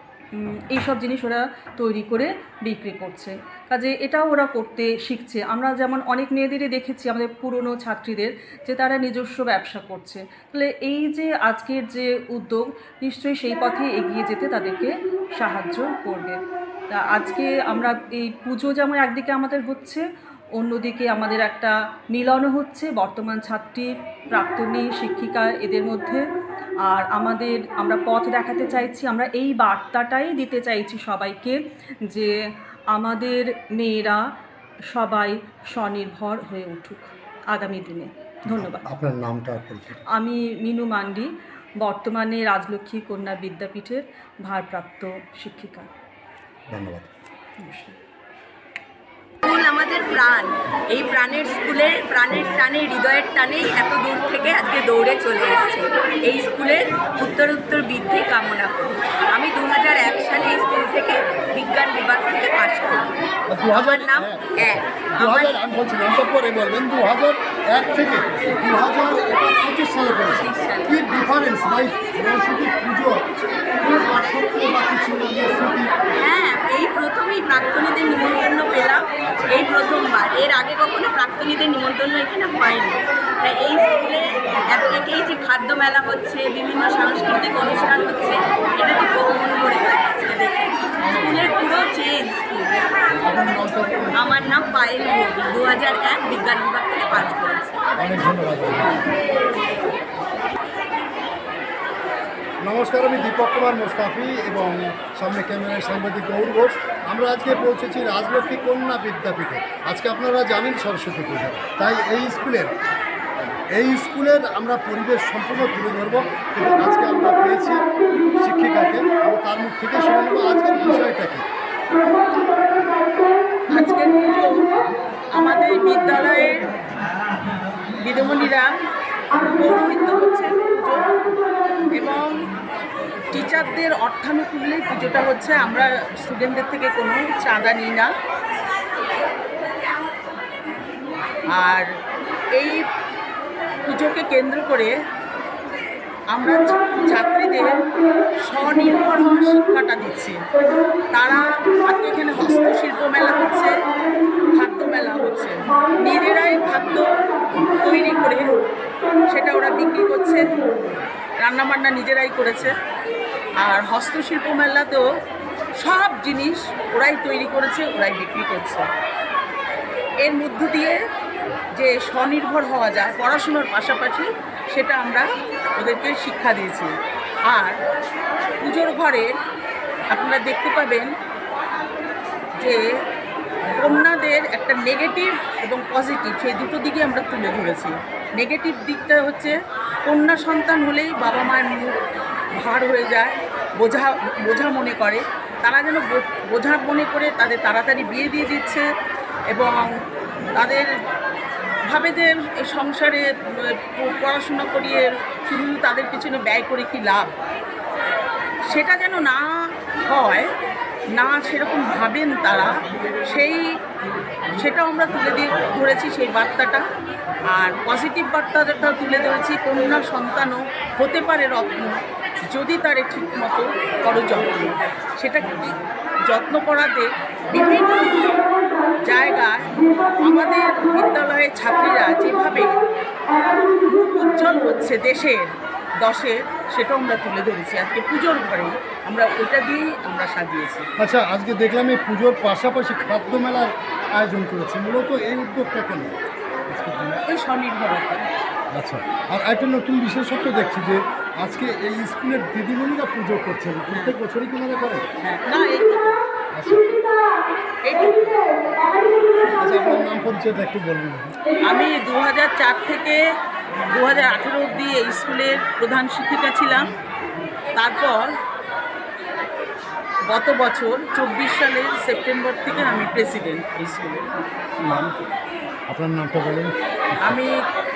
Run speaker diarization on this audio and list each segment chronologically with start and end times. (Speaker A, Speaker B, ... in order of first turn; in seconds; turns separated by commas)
Speaker A: 0.3-16.4, Speaker A: 16.9-20.1, Speaker A: 20.6-26.2, Speaker A: 26.9-32.3, Speaker A: 32.9-34.2, Speaker A: 34.9-38.8, Speaker B: 38.5-40.0, Speaker A: 40.1-41.3, Speaker A: 41.8-45.9, Speaker B: 46.7-47.1, Speaker A: 47.6-48.0, Speaker C: 49.5-63.1, Speaker B: 63.5-73.2, Speaker C: 63.7-65.5, Speaker C: 70.5-70.9, Speaker B: 73.8-75.9, Speaker C: 76.2-92.8, Speaker B: 79.3-79.6, Speaker B: 91.0-91.6, Speaker B: 93.2-94.6, Speaker C: 94.2-97.7, Speaker B: 98.0-99.1, Speaker B: 102.6-112.7, Speaker B: 113.4-117.8, Speaker B: 118.4-121.4, Speaker D: 123.7-124.7, Speaker D: 125.3-126.7, Speaker D: 128.0-128.7, Speaker D: 129.4-131.1, Speaker D: 131.9-132.3, Speaker D: 133.3-138.1, Speaker D: 141.6-141.9, Speaker D: 142.6-142.9, Speaker D: 143.9-144.9, Speaker D: 146.3-147.8, Speaker D: 148.4-150.4, Speaker D: 151.1-153.7, Speaker D: 154.5-158.6, Speaker D: 159.3-160.8, Speaker D: 161.4-162.8, Speaker D: 163.6-165.0, Speaker D: 165.8-168.9, Speaker D: 170.2-171.0, Speaker D: 171.8-175.2, Speaker D: 175.8-176.9, Speaker D: 177.5-177.8, Speaker D: 178.6-179.3, Speaker D: 180.1-181.1, Speaker D: 183.8-189.6, Speaker D: 190.1-192.0, Speaker D: 192.6-198.8, Speaker D: 199.5-199.9, Speaker D: 200.6-200.9, Speaker D: 201.9-207.3, Speaker D: 208.7-209.5, Speaker D: 210.1-210.5, Speaker D: 211.2-212.7, Speaker D: 213.2-213.6, Speaker D: 214.6-216.8, Speaker D: 217.5-225.7, Speaker D: 226.2-228.3, Speaker D: 229.0-232.7, Speaker D: 233.9-235.4, Speaker D: 236.0-240.9, Speaker B: 241.0-246.2, Speaker B: 246.7-247.2, Speaker D: 247.3-248.3, Speaker B: 248.7-255.1, Speaker D: 255.2-256.2, Speaker B: 256.5-257.0, Speaker D: 257.9-258.4, Speaker B: 259.6-261.4, Speaker D: 261.7-263.2, Speaker D: 263.9-266.9, Speaker D: 267.8-268.3, Speaker D: 270.3-274.5, Speaker B: 274.8-275.2, Speaker B: 275.9-277.4, Speaker D: 277.2-277.5